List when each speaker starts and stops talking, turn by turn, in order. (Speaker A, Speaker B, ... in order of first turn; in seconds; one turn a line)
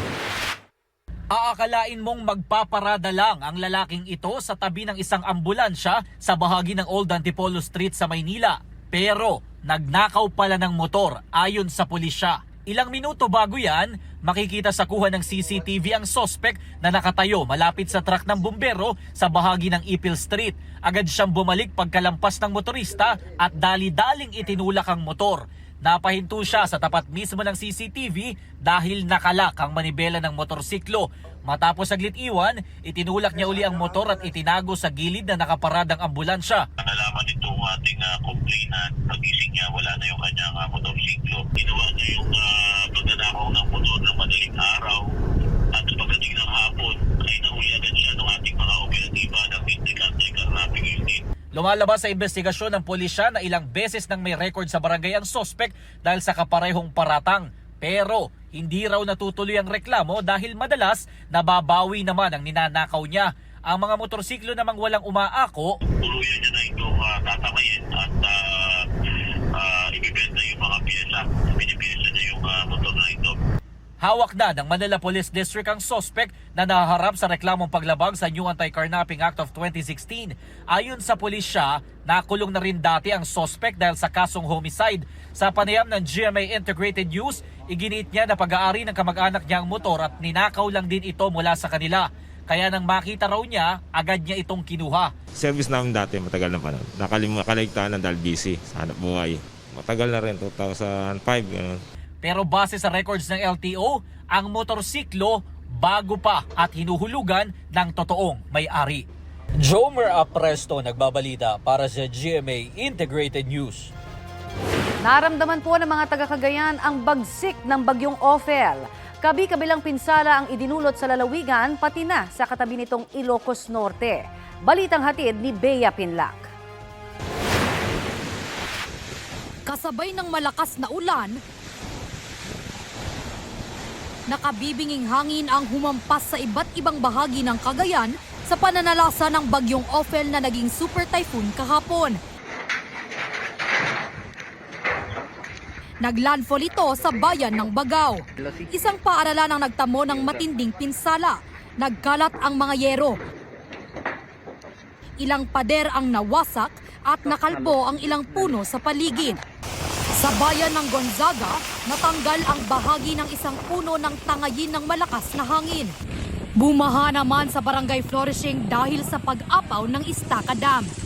Speaker A: 1.3-36.6
Speaker B: 36.8-45.0
Speaker B: 45.7-51.2
Speaker A: 51.5-65.7
Speaker B: 66.0-68.8
Speaker B: 69.5-73.3
Speaker A: 74.0-95.1
Speaker C: 95.3-101.8
Speaker A: 102.2-109.1
Speaker A: 109.6-113.9
Speaker D: 115.0-126.5
Speaker E: 129.7-131.4
Speaker E: 134.3-142.2
Speaker E: 146.0-153.2
Speaker E: 155.2-159.4
Speaker E: 160.2-165.9
Speaker E: 166.6-170.9